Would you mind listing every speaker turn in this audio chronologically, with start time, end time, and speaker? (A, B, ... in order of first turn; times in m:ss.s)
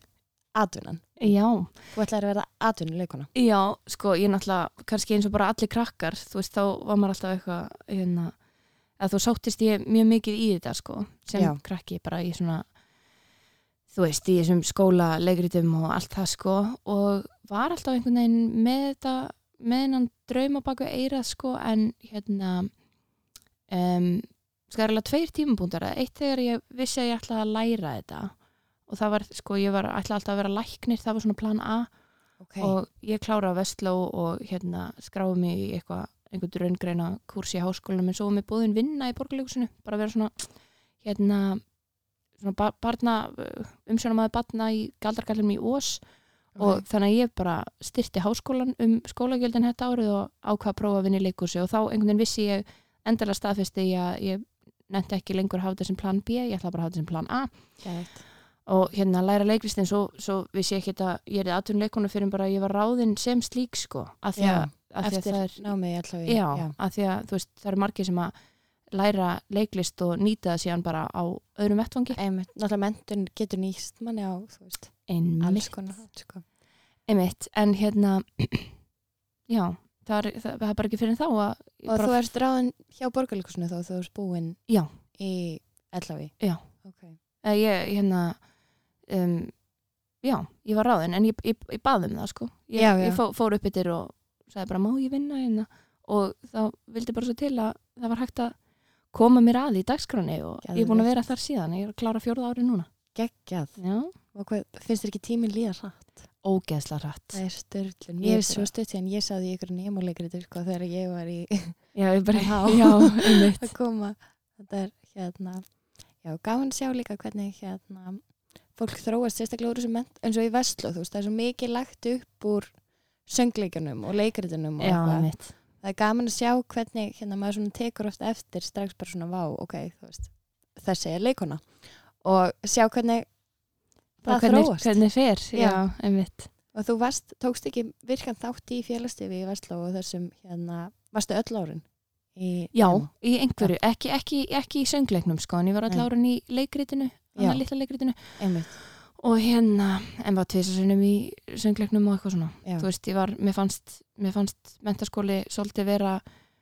0:00.5-0:03.3 A
0:01.2-0:01.8 B
0:03.3-0:12.8 B
0:13.9-0:22.8 B
0:23.7-0:32.0 B
0:32.4-0:32.8 A
0:32.6-1:08.3 B
0:46.5-0:46.8 A
0:57.8-0:58.2 A
1:04.4-1:06.8 A
1:08.8-1:12.2 B
1:12.1-1:16.4 A
1:15.1-1:16.1 B
1:17.0-1:18.9 B
1:19.5-1:22.2 B
1:21.9-1:27.2 A
1:26.4-1:43.1 B
1:32.7-1:33.2 A
1:40.6-1:41.1 A
1:43.1-1:46.4 A
1:43.8-1:44.1 B
1:46.4-1:47.5 B
1:47.3-2:23.8 A
1:48.2-1:48.7 B
1:51.9-1:53.7 B
2:04.8-2:05.6 B
2:14.2-2:16.5 B
2:22.7-2:36.2 B
2:27.4-2:28.8 A